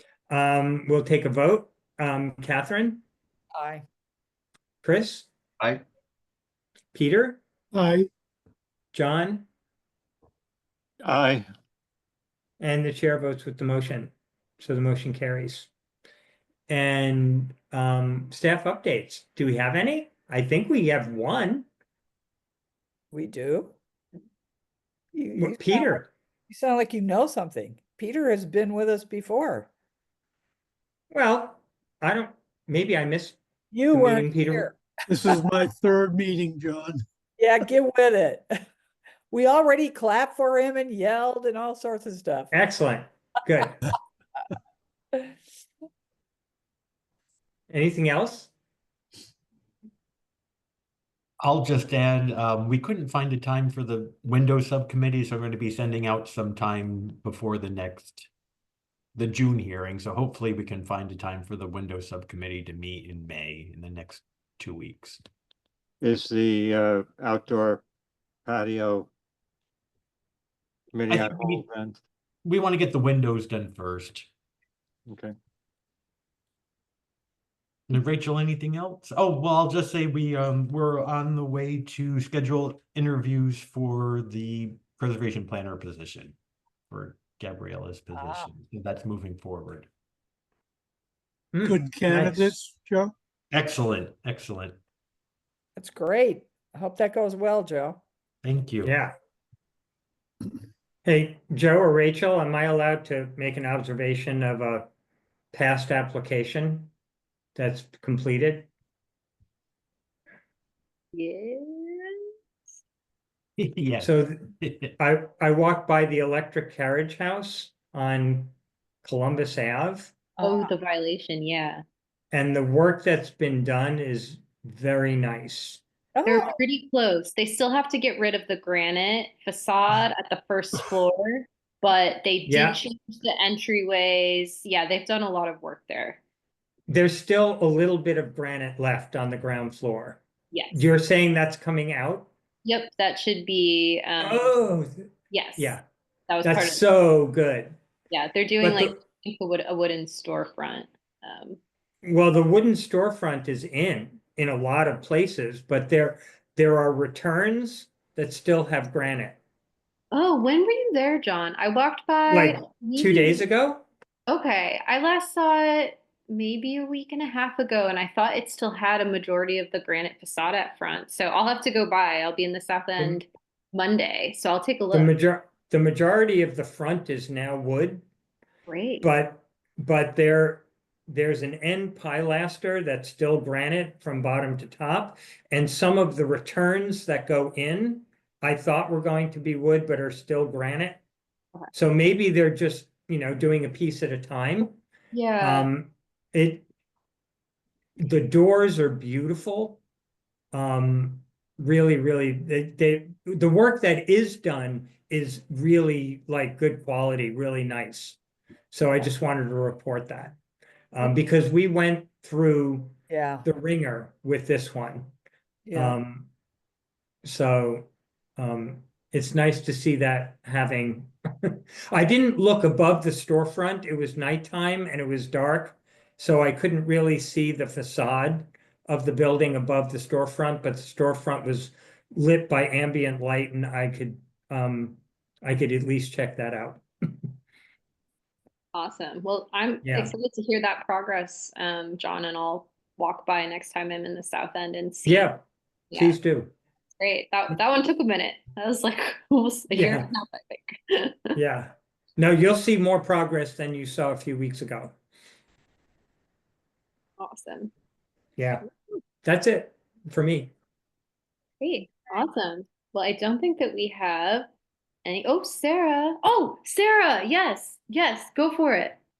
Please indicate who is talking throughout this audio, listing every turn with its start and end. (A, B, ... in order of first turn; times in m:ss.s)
0:00.3-0:03.0 A
0:03.6-0:03.8 B
0:04.8-0:05.3 A
0:06.9-0:07.4 A
0:07.7-0:08.1 C
0:08.9-0:09.5 A
0:11.0-0:11.5 D
0:12.6-0:15.7 A
0:16.7-0:21.7 A
0:23.1-0:23.8 B
0:25.1-0:29.7 B
0:25.4-0:26.1 A
0:31.1-0:33.4 A
0:33.7-0:35.3 B
0:33.9-0:34.7 A
0:35.1-0:37.0 C
0:37.4-0:38.6 B
0:39.3-0:42.5 B
0:42.5-0:43.8 A
0:47.7-0:48.5 A
0:51.4-0:58.3 E
0:59.2-1:05.2 E
1:06.0-1:07.8 D
1:08.5-1:09.1 D
1:10.9-1:12.0 D
1:11.1-1:11.7 E
1:12.4-1:14.3 E
1:17.9-1:26.4 E
1:26.9-1:29.9 E
1:28.1-1:28.5 B
1:31.5-1:32.5 A
1:31.6-1:33.1 C
1:33.5-1:34.8 E
1:35.8-1:38.0 B
1:38.4-1:38.9 E
1:38.8-1:39.1 A
1:41.0-1:44.9 A
1:45.5-1:46.9 A
1:47.6-1:48.7 A
1:51.1-1:52.2 F
1:53.6-1:54.9 E
1:54.0-2:00.2 A
2:00.4-2:00.7 B
2:00.4-2:01.8 F
2:02.3-2:05.8 A
2:06.2-2:06.6 B
2:06.2-2:16.2 F
2:12.5-2:12.8 A
2:16.9-2:20.2 A
2:20.5-2:20.8 F
2:20.7-2:22.3 A
2:22.6-2:24.5 F
2:24.2-2:25.0 A
2:25.3-2:25.8 F
2:25.6-2:25.8 A
2:26.3-2:26.8 F
2:26.4-2:27.8 A
2:28.1-2:31.6 F
2:28.6-2:29.0 A
2:32.0-2:39.4 A
2:40.1-2:43.4 F
2:42.3-2:43.9 A
2:44.3-2:55.1 F
2:54.9-2:58.0 A
2:58.7-2:59.1 F
2:59.0-3:11.0 A
3:11.7-3:14.8 A
3:15.1-3:15.7 F
3:15.4-3:16.7 A
3:18.0-3:19.8 A
3:20.5-3:28.2 A
3:28.7-3:30.4 A
3:30.9-3:35.1 A
3:33.1-3:33.4 B
3:35.7-3:36.0 B
3:35.8-3:36.3 A
3:37.2-3:56.8 A
3:58.7-4:05.3 F
3:59.8-4:00.1 A
4:05.1-4:06.5 A
4:05.9-4:06.2 F
4:07.0-4:11.4 F
4:09.7-4:10.1 A
4:11.4-4:15.0 A
4:17.2-4:17.7 F
4:18.4-4:18.6 A
4:19.2-4:20.5 A
4:21.6-4:24.5 F
4:25.0-4:29.0 F